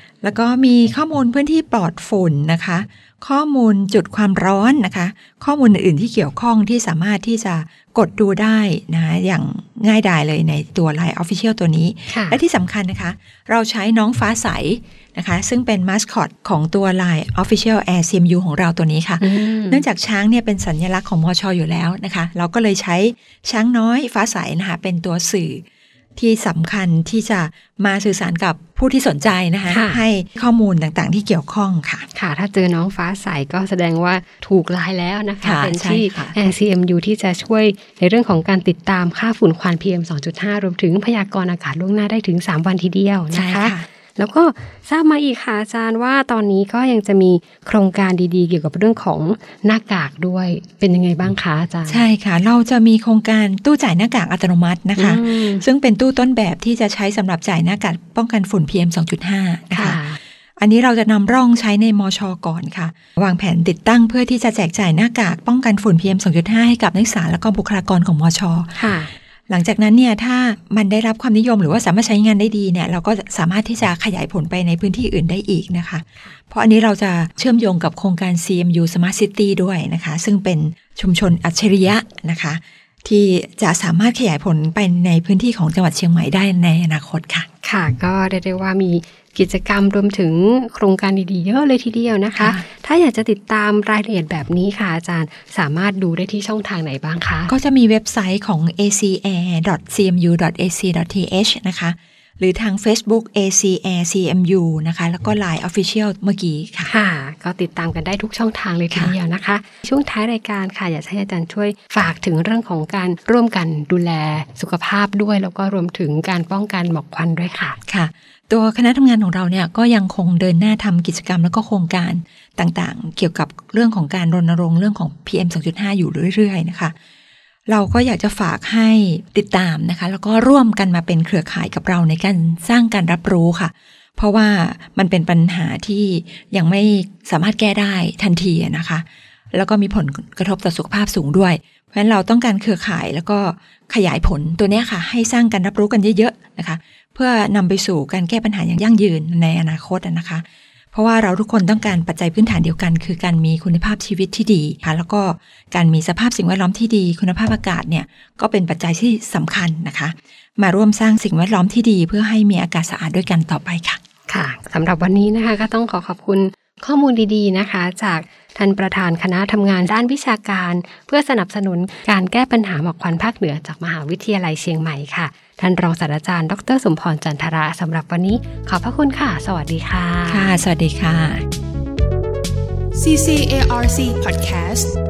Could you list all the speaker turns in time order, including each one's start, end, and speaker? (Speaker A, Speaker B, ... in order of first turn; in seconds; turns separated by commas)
Speaker A: 0.2-25.6, Speaker B: 12.1-12.4, Speaker B: 19.2-19.8, Speaker A: 26.1-32.0, Speaker B: 29.7-30.0, Speaker B: 32.1-52.1, Speaker A: 35.4-36.3, Speaker A: 43.3-43.9, Speaker A: 51.9-60.0, Speaker B: 55.0-55.6, Speaker B: 59.7-60.2, Speaker A: 60.6-68.8, Speaker B: 68.8-69.1, Speaker A: 69.5-87.5, Speaker B: 87.6-97.5, Speaker A: 92.3-92.6, Speaker A: 97.5-106.9, Speaker B: 106.9-117.8, Speaker A: 117.9-126.9, Speaker A: 127.7-164.0, Speaker B: 164.3-180.6, Speaker A: 180.3-181.4, Speaker C: 182.9-184.9